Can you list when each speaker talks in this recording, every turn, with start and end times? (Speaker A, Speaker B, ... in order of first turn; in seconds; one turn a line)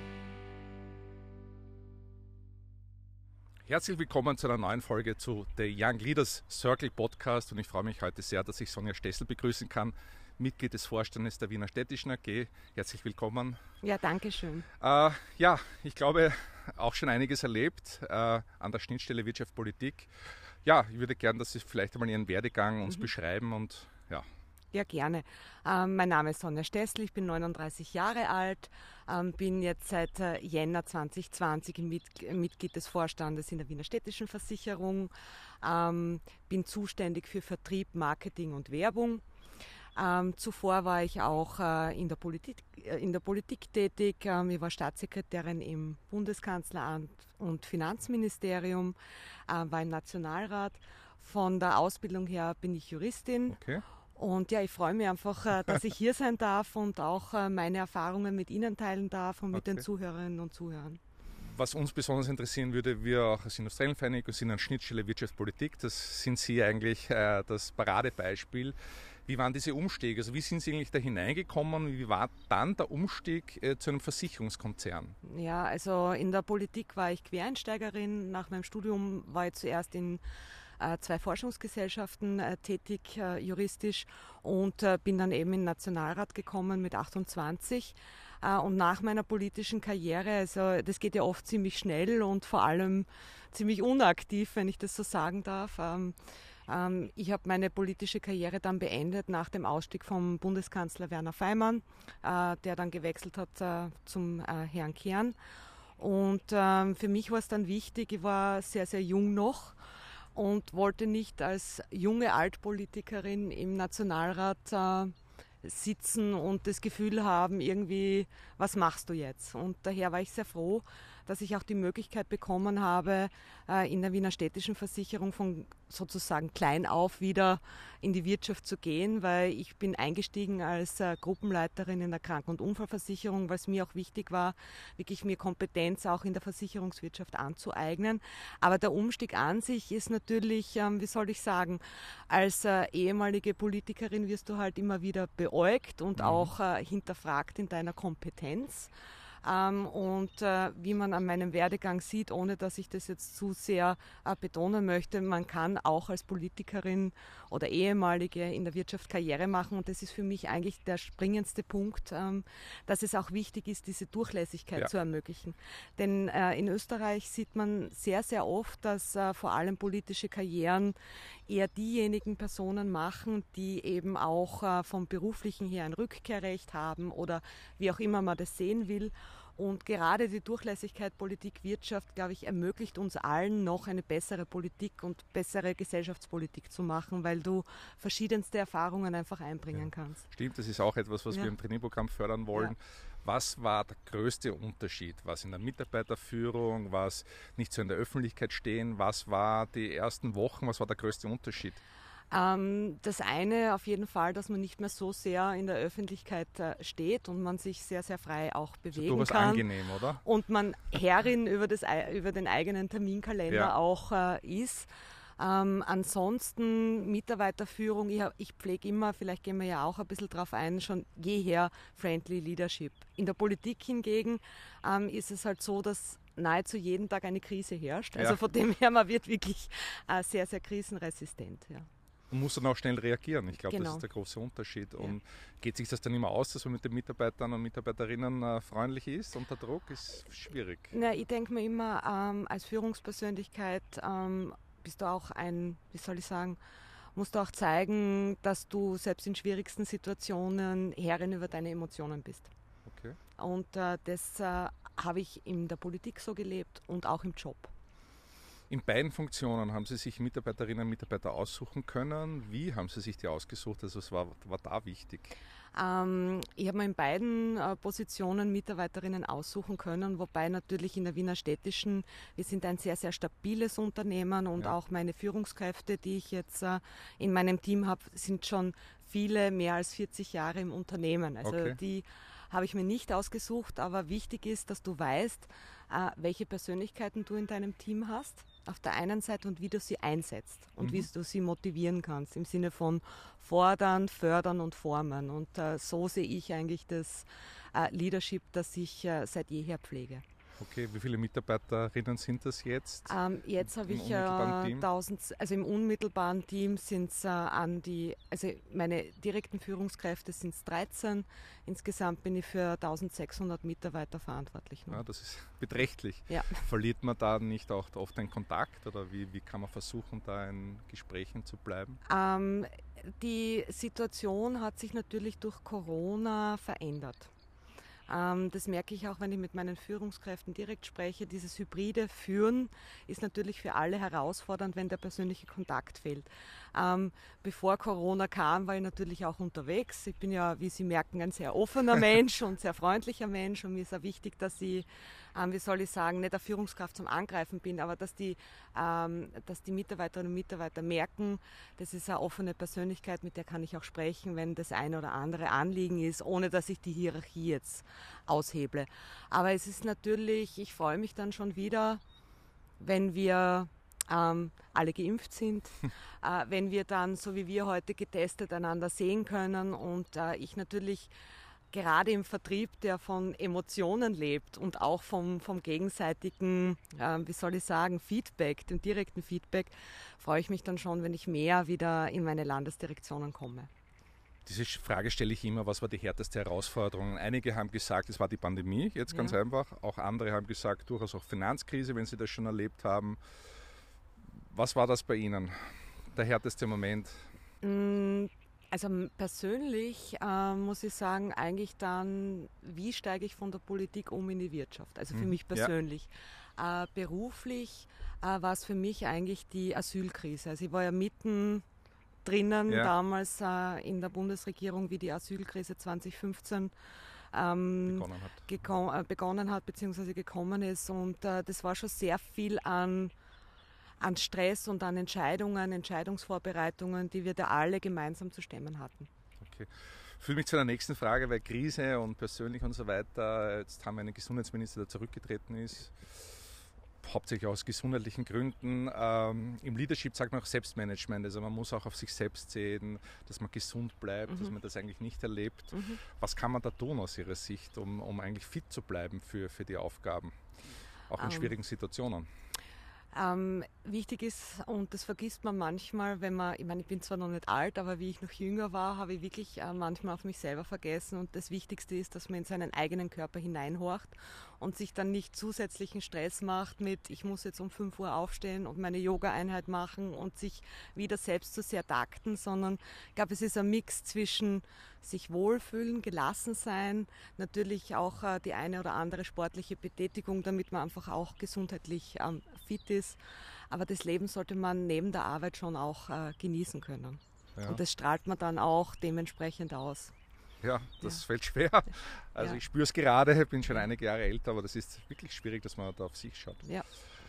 Speaker A: 3.7-13.6
Speaker B: 13.8-14.7
Speaker A: 14.8-24.3
Speaker B: 24.7-39.2
Speaker B: 40.0-49.0
Speaker B: 49.5-53.6
Speaker A: 53.5-53.8
Speaker B: 54.2-61.0
Speaker A: 59.5-59.9
Speaker A: 61.4-68.8
Speaker A: 69.3-75.2
Speaker B: 75.2-80.2
Speaker B: 80.8-96.2
Speaker B: 96.7-105.3
Speaker B: 106.0-109.8
Speaker B: 110.3-148.9
Speaker A: 146.2-146.5
Speaker B: 149.4-170.9
Speaker B: 171.5-190.3
Speaker A: 189.8-201.8
Speaker B: 202.3-209.7
Speaker A: 208.9-210.2
Speaker B: 210.2-231.9
Speaker A: 213.5-213.7
Speaker A: 232.3-240.9
Speaker B: 233.7-234.1
Speaker B: 240.9-246.6
Speaker B: 247.2-252.5
Speaker A: 252.9-253.2
Speaker B: 253.4-257.7
Speaker A: 258.7-265.4
Speaker B: 265.8-300.2
Speaker A: 281.4-281.8
Speaker A: 290.8-291.1
Speaker A: 300.6-303.1
Speaker B: 303.1-315.0
Speaker A: 303.7-304.9
Speaker A: 314.9-322.0
Speaker B: 316.3-316.6
Speaker B: 322.1-327.3
Speaker B: 328.1-362.0
Speaker B: 362.8-371.1
Speaker B: 371.7-383.7
Speaker A: 384.5-393.2
Speaker B: 389.1-389.4
Speaker A: 394.4-397.2
Speaker B: 397.6-411.6
Speaker A: 405.1-405.7
Speaker B: 412.2-416.7
Speaker A: 412.7-412.9
Speaker B: 417.3-423.1
Speaker A: 417.9-418.5
Speaker B: 424.0-429.1
Speaker A: 429.4-436.4
Speaker A: 437.0-450.4
Speaker B: 445.7-446.0
Speaker A: 451.1-452.3
Speaker B: 451.2-451.5
Speaker B: 453.1-490.1
Speaker A: 487.6-487.8
Speaker A: 490.6-496.6